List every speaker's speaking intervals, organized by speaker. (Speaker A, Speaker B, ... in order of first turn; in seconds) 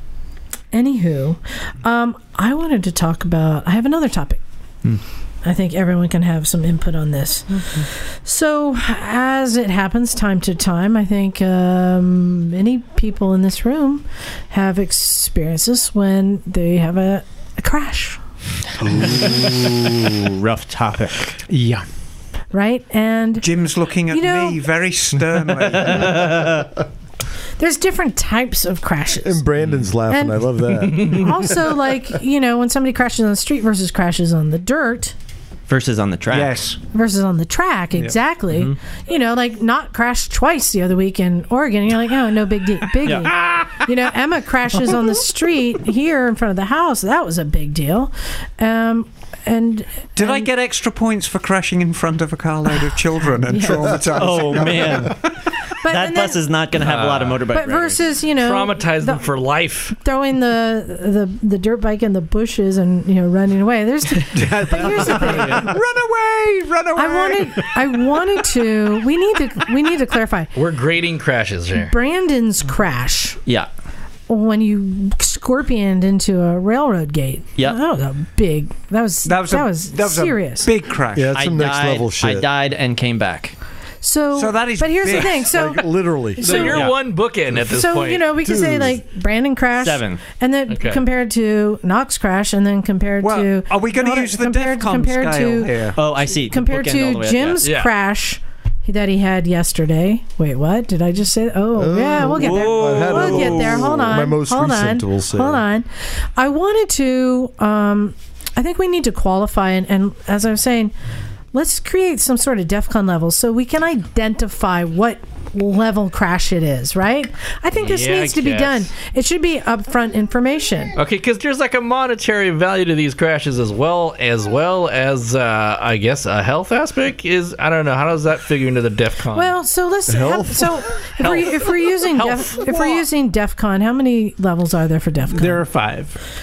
Speaker A: 0.7-4.4, 5.4-18.2, 22.5-23.5, 24.1-24.6, 27.6-29.4, 30.1-35.1, 36.9-50.5, 53.5-54.0, 55.8-56.4, 57.5-59.2, 60.0-65.7, 66.9-70.5, 71.7-73.4, 74.3-80.7, 84.0-85.8, 86.3-86.8, 87.5-95.9, 96.5-110.9, 111.5-120.9, 129.3-135.6
Speaker B: 18.8-21.4, 25.7-26.7, 35.7-36.6, 43.0-43.4, 54.1-55.3, 55.8-58.0, 81.3-83.5, 89.8-90.2, 96.0-97.6, 102.2-104.0
Speaker C: 18.9-19.3, 21.5-21.8, 64.3-65.8, 86.5-86.9, 135.3-136.2
Speaker D: 23.4-26.4, 36.3-36.8, 50.1-55.2, 65.1-67.7, 79.2-81.3, 84.3-85.5, 93.2-96.0
Speaker E: 29.2-31.3, 81.1-82.5, 85.5-86.5, 88.4-89.0, 101.8-105.6, 130.1-130.8
Speaker F: 56.8-57.4, 58.4-60.0, 70.5-71.9, 86.4-88.3, 90.7-91.0, 97.6-97.9, 117.8-118.9, 121.0-129.5, 131.2-133.0